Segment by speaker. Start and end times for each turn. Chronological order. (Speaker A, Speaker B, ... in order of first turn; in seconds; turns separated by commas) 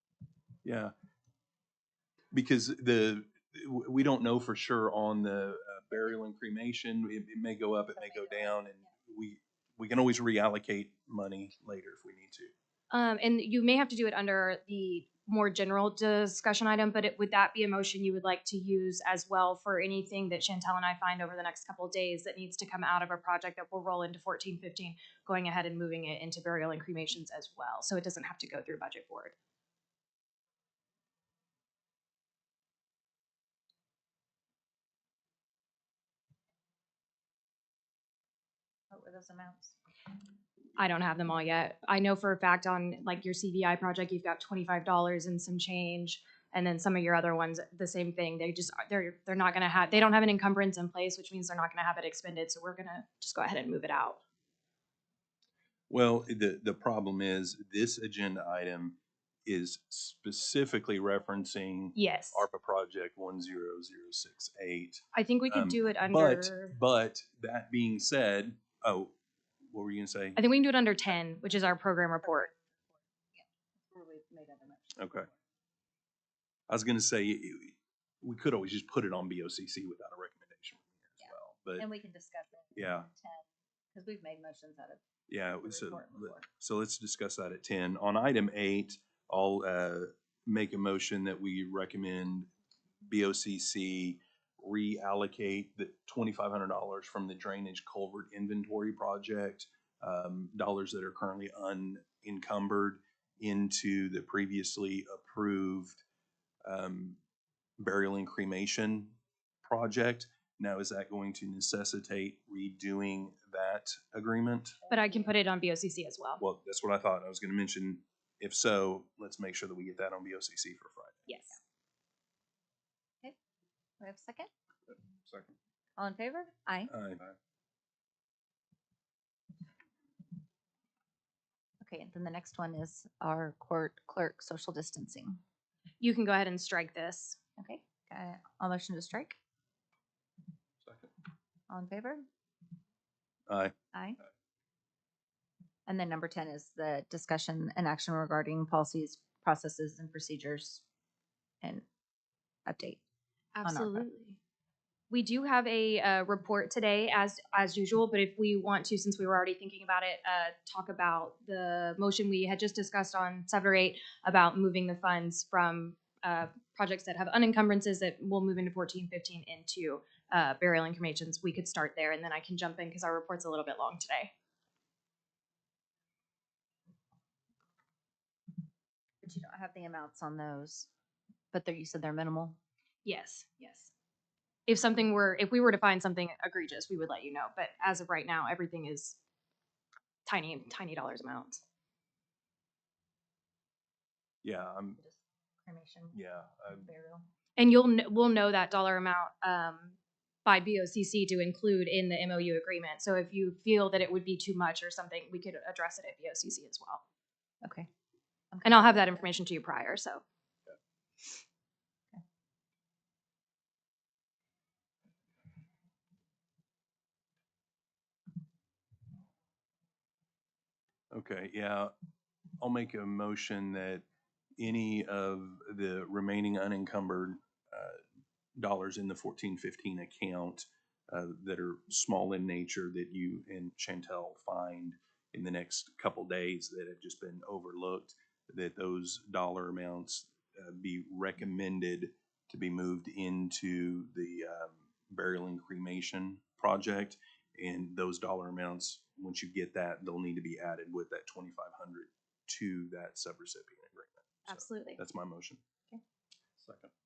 Speaker A: 0.6-0.9, Speaker A: 2.3-12.5, Speaker B: 8.0-8.9, Speaker C: 12.9-29.4, Speaker B: 38.9-39.8, Speaker C: 40.8-54.2, Speaker B: 49.5-50.2, Speaker A: 55.9-69.1, Speaker C: 62.0-62.5, Speaker C: 65.1-66.8, Speaker A: 69.7-70.4, Speaker C: 70.4-72.5, Speaker B: 72.2-75.3, Speaker A: 75.0-75.3, Speaker A: 76.7-81.9, Speaker B: 81.2-86.5, Speaker A: 82.7-83.1, Speaker A: 85.3-92.5, Speaker A: 93.0-106.0, Speaker A: 106.7-107.2, Speaker A: 107.8-114.8, Speaker B: 114.8-115.3, Speaker C: 114.9-116.4, Speaker A: 116.4-121.3, Speaker C: 121.3-121.6, Speaker B: 124.0-124.5, Speaker B: 126.0-126.9, Speaker A: 126.9-127.3, Speaker B: 131.8-135.4, Speaker C: 136.0-137.4, Speaker B: 137.6-139.4, Speaker B: 141.7-142.2, Speaker A: 143.5-143.8, Speaker B: 143.9-144.2, Speaker B: 145.9-150.8, Speaker B: 152.7-153.0, Speaker C: 153.6-154.4, Speaker B: 153.7-154.1, Speaker C: 155.1-174.3, Speaker B: 179.2-180.9, Speaker B: 181.5-182.6, Speaker C: 183.1-183.9, Speaker C: 184.7-189.2, Speaker C: 190.3-191.6, Speaker A: 194.4-195.0, Speaker B: 195.0-197.3, Speaker A: 196.1-196.9, Speaker C: 197.6-207.0, Speaker B: 207.6-207.9, Speaker B: 208.5-209.3, Speaker C: 208.6-210.2, Speaker A: 221.1-221.9, Speaker A: 222.6-224.1, Speaker A: 224.6-228.0, Speaker A: 228.6-255.6, Speaker C: 254.5-255.0, Speaker A: 256.6-256.9